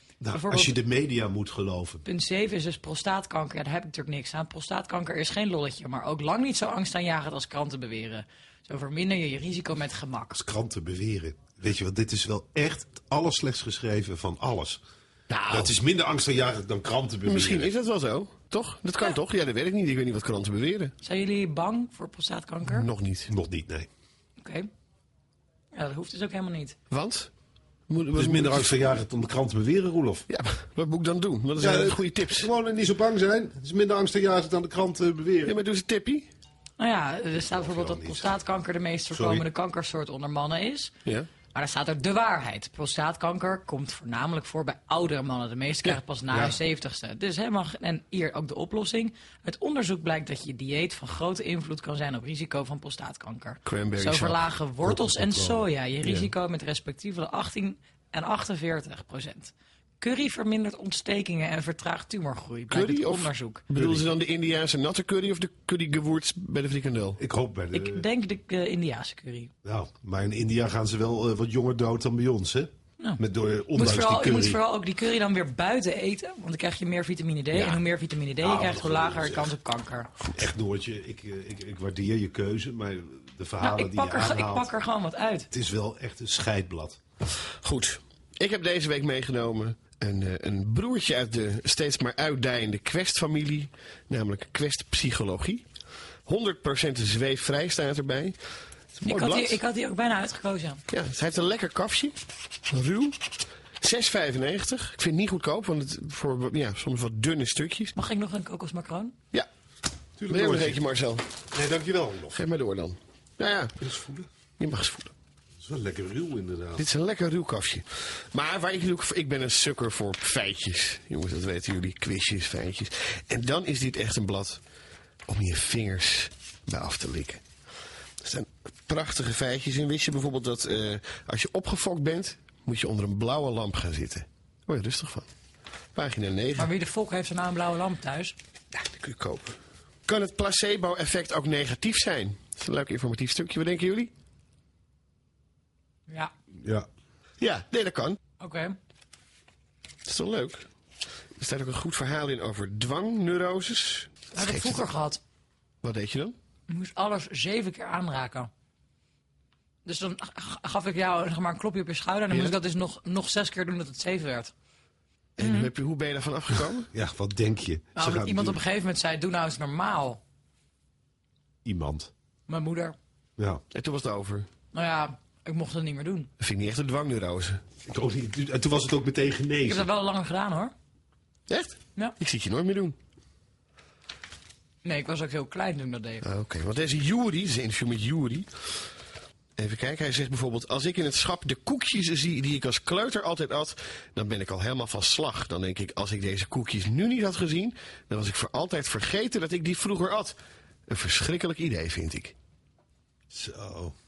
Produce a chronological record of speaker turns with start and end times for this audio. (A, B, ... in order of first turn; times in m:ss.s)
0:00.2-0:02.0 A
0:00.3-0:00.8 B
0:02.0-0:10.4 B
0:10.3-0:14.8 A
0:15.3-0:15.8 C
0:15.5-0:17.7 A
0:17.2-0:20.9 C
0:21.0-0:22.9 B
0:22.6-0:23.3 C
0:23.3-0:23.9 A
0:24.4-0:24.7 B
0:25.7-0:26.8 B
0:26.9-0:27.3 C
0:27.9-0:28.9 C
0:28.1-0:30.2 A
0:30.3-0:32.5 C
0:31.6-0:35.5 A
0:35.4-0:36.3 C
0:36.8-0:40.9 B
0:37.4-0:38.3 A
0:39.1-0:39.4 A
0:41.5-1:03.6 B
0:46.3-0:46.6 A
0:53.6-0:54.5 C
0:54.8-0:55.6 A
0:56.0-0:56.3 C
1:02.7-1:07.2 C
1:03.7-1:04.1 A
1:07.2-1:08.0 A
1:07.7-1:09.5 B
1:09.6-1:14.6 A
1:13.7-1:20.1 B
1:18.4-1:19.5 A
1:20.3-1:24.7 A
1:23.6-1:25.5 B
1:25.5-1:27.0 A
1:27.6-1:35.6 C
1:36.2-1:38.4 C
1:38.9-1:39.6 C
1:39.0-1:40.8 B
1:40.9-1:42.2 C
1:42.7-1:43.2 C
1:43.8-1:47.9 C
1:47.9-1:49.1 B
1:50.2-1:50.8 A
1:50.3-1:51.3 C
1:51.5-1:52.4 A
1:52.3-1:53.8 C
1:53.8-1:54.3 A
1:54.6-1:55.1 C
1:55.6-1:56.8 A
1:56.8-2:04.6 C
2:05.3-2:07.4 C
2:08.2-2:15.3 C
2:15.9-2:16.7 C
2:16.6-2:18.3 B
2:18.7-2:19.5 C
2:20.1-2:24.1 C
2:27.4-2:28.2 C
2:28.4-2:28.7 B
2:30.0-2:30.7 C
2:31.4-2:34.8 C
2:34.3-2:35.2 B
2:35.8-2:36.3 C
2:36.7-2:38.5 B
2:39.8-2:44.5 B
2:42.3-2:42.6 C
2:45.4-2:46.9 C
2:45.4-2:45.7 B
2:46.9-2:48.6 A
2:48.0-2:50.2 B
2:51.6-2:52.1 A
2:52.5-2:53.0 B
2:53.7-2:54.5 C
2:54.7-2:56.3 B
2:56.4-2:57.6 C
2:57.9-2:59.9 A
2:59.6-3:00.7 B
3:01.5-3:03.0 C
3:04.8-3:06.2 B
3:06.2-3:08.6 C
3:09.6-3:20.4 C
3:20.9-3:22.3 C
3:23.3-3:23.9 A